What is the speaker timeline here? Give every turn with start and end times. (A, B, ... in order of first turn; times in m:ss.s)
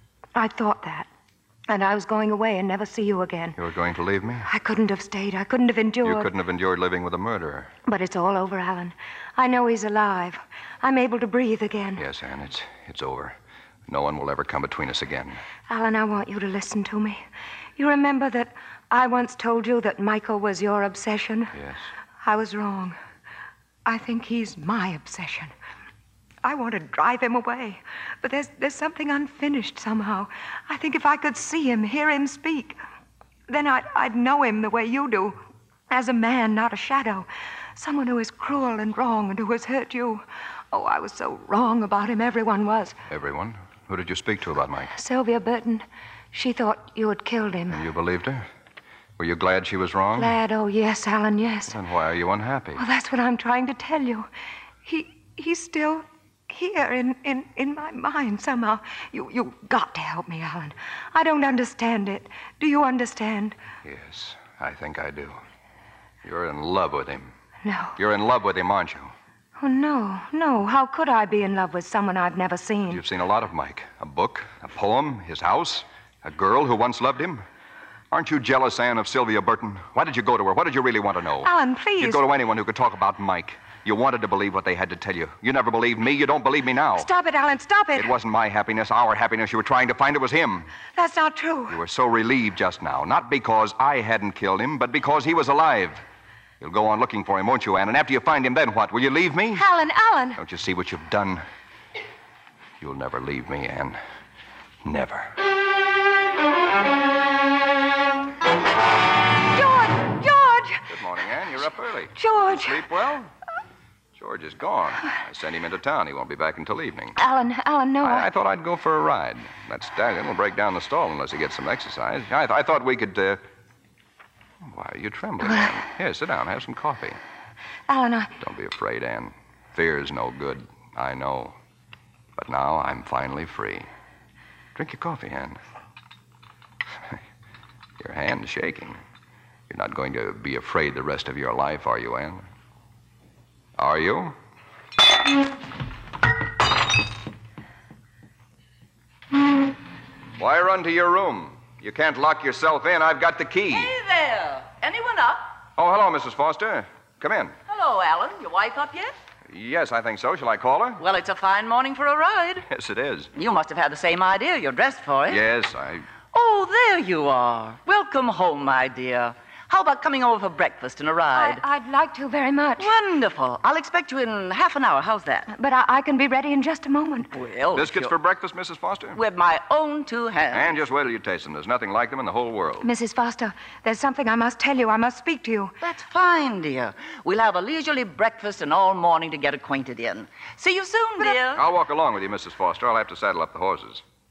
0:00.4-0:01.1 A
0:01.7-0:03.6 A
0:03.6-0:04.5 B
0:04.4-0:06.3 A
0:06.0-0:07.7 B
0:07.9-0:12.0 A
0:12.0-0:15.4 B
0:15.7-0:17.2 A
0:17.8-0:21.5 A
0:21.6-0:21.9 B
0:22.2-0:23.0 A
0:23.8-0:25.5 A
0:26.4-0:32.8 A
0:33.5-0:43.0 A
0:43.1-0:44.9 B
0:44.9-0:47.8 A
0:47.7-0:48.5 B
0:49.2-0:50.4 B
0:50.2-0:51.8 A
0:51.7-0:52.8 B
0:52.8-0:54.3 A
0:54.9-1:03.6 A
1:03.8-1:05.4 B
1:06.2-1:07.3 B
1:07.6-1:08.0 A
1:08.0-1:09.1 B
1:09.6-1:13.0 A
1:12.9-1:17.4 B
1:18.1-1:27.1 B
1:21.4-1:22.2 A
1:27.0-1:28.1 A
1:28.0-1:30.7 B
1:30.9-1:31.8 A
1:31.7-1:36.0 B
1:36.6-1:39.6 B
1:39.5-1:40.4 A
1:40.4-1:41.4 B
1:42.8-1:44.0 B
1:44.8-1:45.4 B
1:49.5-1:50.8 A
1:50.9-1:53.3 B
1:52.2-1:52.8 A
1:54.2-1:57.2 B
1:57.2-1:58.3 A
1:58.0-2:03.4 B
2:04.6-2:07.2 B
2:05.5-2:05.7 A
2:07.9-2:08.3 A
2:08.4-2:11.6 B
2:12.4-2:13.9 B
2:14.8-2:15.6 B
2:18.0-2:19.0 B
2:19.7-2:22.4 B
2:23.8-2:24.4 B
2:30.4-2:34.0 B
2:33.7-2:35.6 C
2:35.8-2:37.6 B
2:37.7-2:39.1 C
2:39.5-2:41.0 B
2:41.0-2:42.7 C
2:42.7-2:43.3 B
2:43.3-2:45.4 C
2:45.3-2:46.1 B
2:46.3-2:51.6 C
2:51.3-2:52.9 A
2:52.8-2:55.5 C
2:55.5-2:57.3 A
2:57.3-2:58.1 C
2:57.7-2:59.2 B
2:59.2-3:00.7 C
3:00.5-3:02.9 B
3:02.8-3:05.8 A
3:05.8-3:11.6 C
3:11.5-3:14.0 B